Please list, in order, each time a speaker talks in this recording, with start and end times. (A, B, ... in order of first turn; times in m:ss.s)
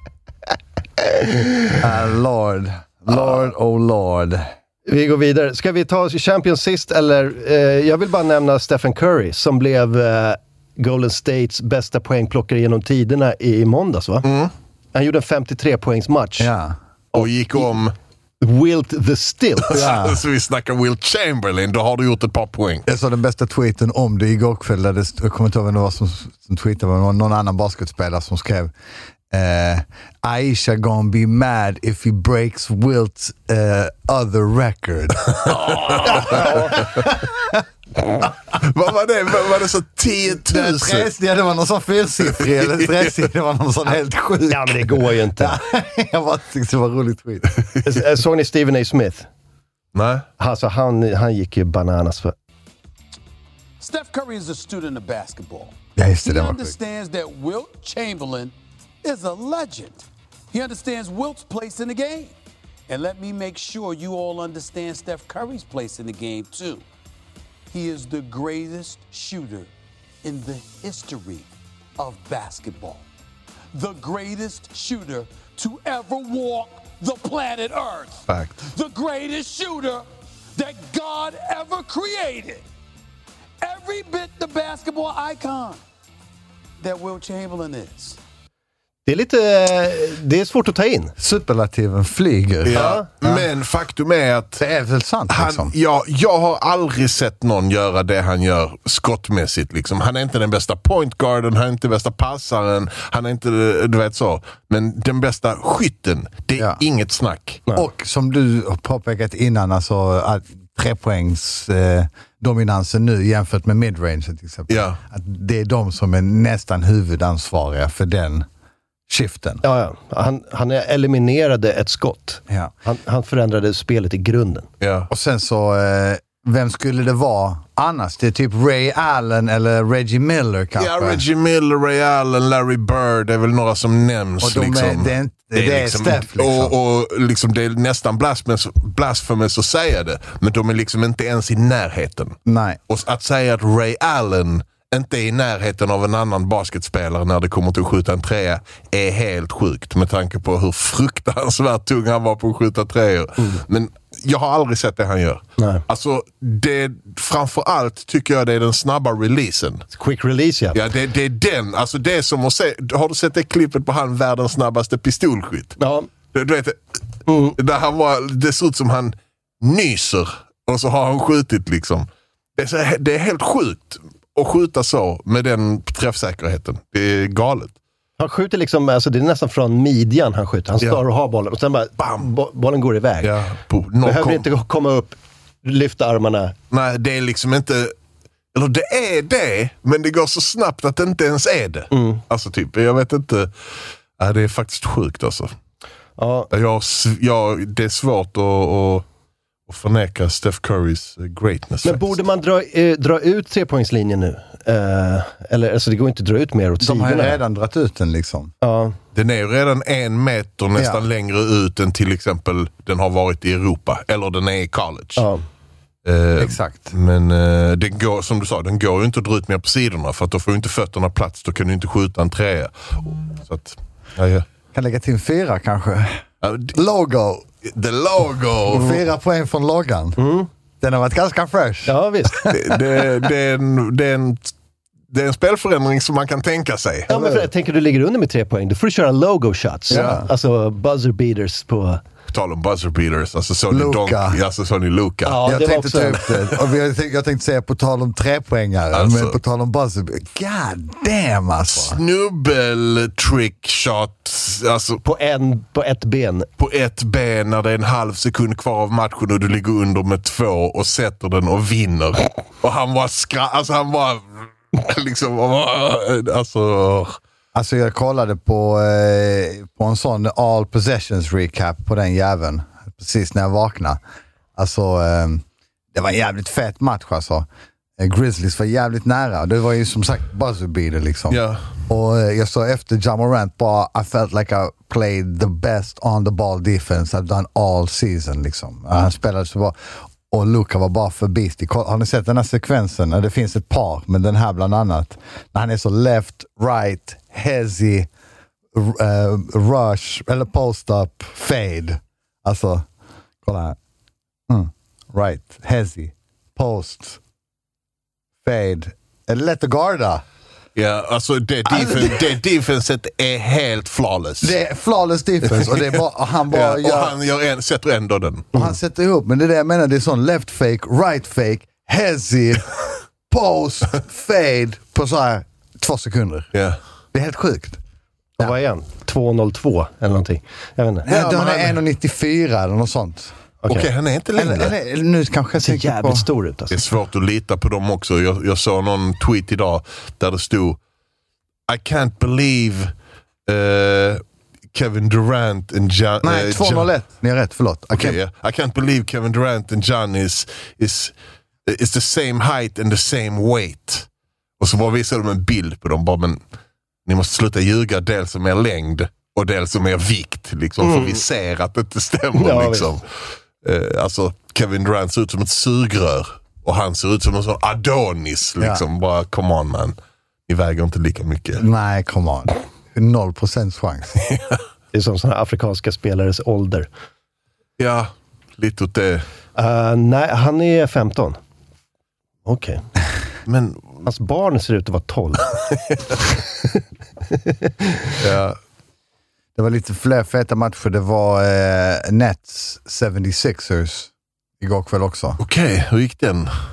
0:01.8-0:04.5 A
0:04.8-0:14.3 B
0:14.2-0:14.5 C
0:14.9-0:16.5 B
0:16.4-0:16.8 A
0:17.1-0:17.7 B
0:17.1-0:17.9 C
0:18.4-0:19.9 B
0:19.6-0:22.8 C
0:19.7-0:20.2 A
0:22.8-0:28.7 A
0:29.3-0:37.6 A
0:36.0-0:36.5 C
0:38.5-0:41.1 C
0:40.4-0:47.6 A
0:42.6-0:43.0 C
0:43.8-0:45.6 B
0:47.8-0:49.3 B
0:49.9-0:50.2 C
0:50.4-0:52.3 B
0:53.8-1:02.3 D
0:56.0-0:56.8 A
1:02.9-1:06.8 D
1:07.7-1:09.7 D
1:10.2-1:11.5 D
1:12.0-1:13.0 D
1:13.7-1:20.0 D
1:18.3-1:18.6 C
1:20.6-1:22.6 D
1:23.6-1:25.8 D
1:26.8-1:28.2 D
1:29.0-1:31.1 B
1:31.2-1:33.4 A
1:32.6-1:34.6 C
1:32.7-1:33.0 B
1:34.6-1:35.7 A
1:35.3-1:47.6 C
1:47.7-1:58.4 A
1:54.7-1:55.0 C
1:59.1-1:59.6 A
1:59.6-2:04.7 B
2:04.8-2:05.1 C
2:05.1-2:11.2 A
2:10.8-2:22.4 C
2:14.4-2:16.7 A
2:22.4-2:22.8 A
2:22.9-2:39.8 C
2:35.6-2:35.8 B
2:39.9-2:40.8 B
2:40.7-2:45.8 C
2:45.8-2:46.1 B
2:46.3-2:46.8 C
2:47.3-2:47.6 B
2:47.5-2:52.0 C
2:52.6-2:57.8 C
2:58.2-3:03.4 B
3:02.0-3:02.2 C
3:03.2-3:04.4 C
3:04.0-3:06.5 B
3:06.7-3:07.9 C
3:08.5-3:13.5 C
3:11.9-3:12.2 B
3:14.2-3:15.5 C
3:16.2-3:16.5 B
3:16.5-3:19.0 C
3:19.7-3:22.2 C
3:21.8-3:27.4 B
3:26.8-3:28.5 A
3:28.6-3:29.0 B
3:29.1-3:35.2 C
3:30.8-3:31.0 A
3:35.2-3:35.4 B
3:36.0-3:44.4 C
3:36.4-3:36.9 A
3:44.7-3:46.2 A
3:46.4-3:46.7 C
3:46.7-3:47.4 A
3:47.6-3:49.0 C
3:48.7-3:50.2 A
3:50.2-3:50.5 B
3:50.8-3:52.4 A
3:51.8-3:52.5 B
3:52.5-3:54.5 C
3:55.1-3:57.1 C
3:57.1-4:02.0 B
3:57.1-3:57.4 A
3:59.9-4:00.2 C
3:59.9-4:00.3 A
4:02.3-4:05.5 C
4:03.7-4:04.4 A
4:05.2-4:06.3 B
4:05.4-4:12.0 A
4:08.9-4:09.4 C
4:11.7-4:15.0 C
4:15.0-4:16.5 B
4:16.6-4:27.2 C
4:27.5-4:34.0 A
4:34.6-4:37.4 A
4:38.0-4:49.8 A
4:41.3-4:41.6 C
4:50.3-4:58.1 A
4:58.7-5:02.8 A
5:03.4-5:03.8 A
5:04.5-5:07.2 A
5:08.4-5:10.2 A
5:10.7-5:14.6 C
5:11.7-5:12.2 A
5:14.4-5:17.2 A
5:15.5-5:18.5 C
5:18.5-5:26.5 A
5:27.1-5:27.8 A
5:28.4-5:31.1 B
5:31.0-5:33.3 A
5:31.1-5:31.8 C
5:33.6-5:33.9 B
5:33.7-5:34.7 C
5:34.4-5:36.2 A
5:35.6-5:36.8 B
5:36.7-5:40.8 C
5:41.7-5:42.9 C
5:43.5-5:44.2 C
5:44.7-5:46.9 C
5:46.2-5:48.2 A
5:47.9-5:51.1 C
5:51.7-5:54.1 C
5:54.6-5:56.4 C
5:57.0-6:03.0 C
6:00.8-6:01.2 B
6:02.3-6:03.0 B
6:03.6-6:09.9 C
6:08.6-6:08.8 A
6:10.5-6:11.6 C
6:11.6-6:14.2 A
6:14.9-6:16.9 B
6:17.8-6:19.2 C
6:19.5-6:21.4 B
6:22.4-6:22.8 B
6:23.4-6:24.0 C
6:24.0-6:25.4 B
6:28.2-6:28.6 C
6:29.6-6:35.4 A
6:35.4-6:36.5 C